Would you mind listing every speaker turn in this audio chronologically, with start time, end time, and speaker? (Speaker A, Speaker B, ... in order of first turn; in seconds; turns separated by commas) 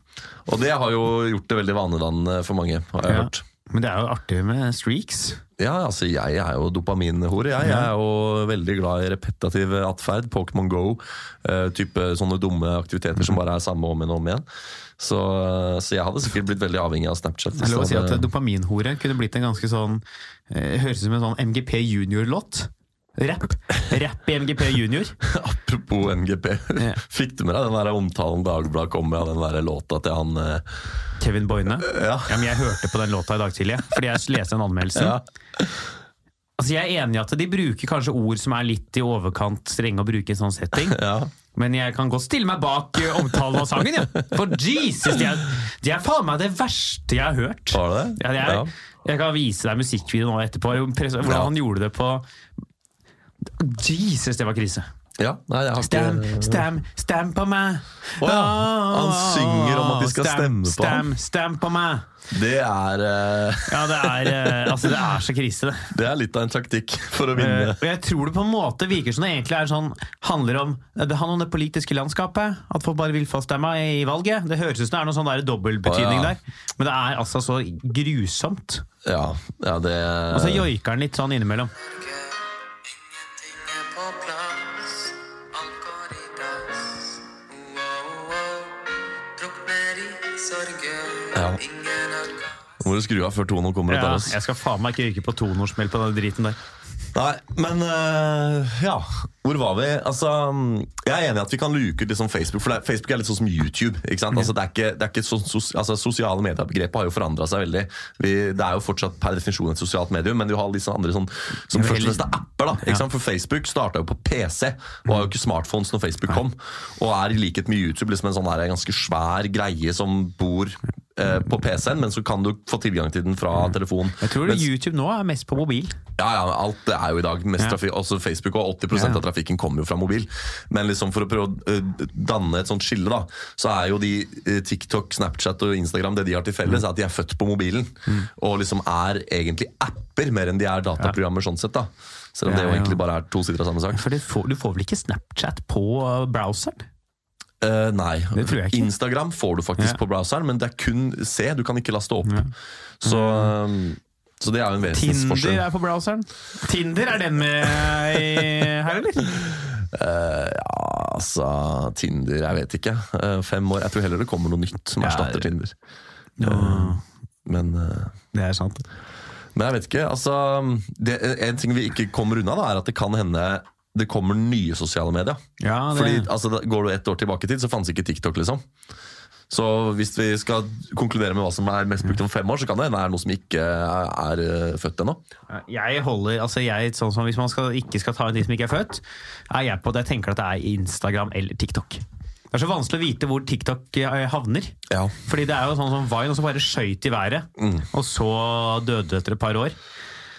Speaker A: 0.5-3.4, Speaker B: 3.0-5.4, Speaker A: 5.6-14.4, Speaker B: 7.6-7.9, Speaker A: 15.0-18.3, Speaker B: 17.6-25.2, Speaker A: 25.2-30.6, Speaker B: 31.2-35.2, Speaker A: 31.8-32.9, Speaker A: 34.9-35.8, Speaker B: 36.6-41.0, Speaker A: 40.8-41.3, Speaker B: 41.5-52.2, Speaker A: 47.7-48.7, Speaker A: 51.2-51.5, Speaker B: 53.6-54.9, Speaker A: 55.2-56.6, Speaker B: 55.8-62.0, Speaker A: 58.2-61.0, Speaker A: 62.3-65.0, Speaker B: 63.7-65.9, Speaker A: 65.9-67.8, Speaker B: 67.3-78.8, Speaker A: 75.8-76.3, Speaker A: 79.0-80.7, Speaker B: 80.3-81.7, Speaker C: 81.8-92.7, Speaker A: 91.3-91.6, Speaker A: 92.8-94.4, Speaker B: 93.9-96.6, Speaker A: 97.1-124.7, Speaker B: 111.7-112.3, Speaker B: 124.2-125.9, Speaker A: 126.2-144.0, Speaker B: 128.9-129.2, Speaker B: 142.4-143.0, Speaker B: 143.9-146.9, Speaker A: 147.6-152.4, Speaker B: 148.3-148.9, Speaker B: 152.2-152.5, Speaker A: 153.0-155.6, Speaker B: 153.0-153.5, Speaker B: 154.9-159.3, Speaker A: 157.8-158.5, Speaker A: 159.2-165.7, Speaker B: 165.0-165.5, Speaker B: 166.4-167.0, Speaker A: 166.4-168.1, Speaker B: 168.3-168.8, Speaker A: 169.5-175.4, Speaker B: 175.6-176.3, Speaker A: 175.9-178.6, Speaker A: 179.5-185.2, Speaker B: 185.5-199.8, Speaker A: 194.9-195.1, Speaker A: 197.6-197.8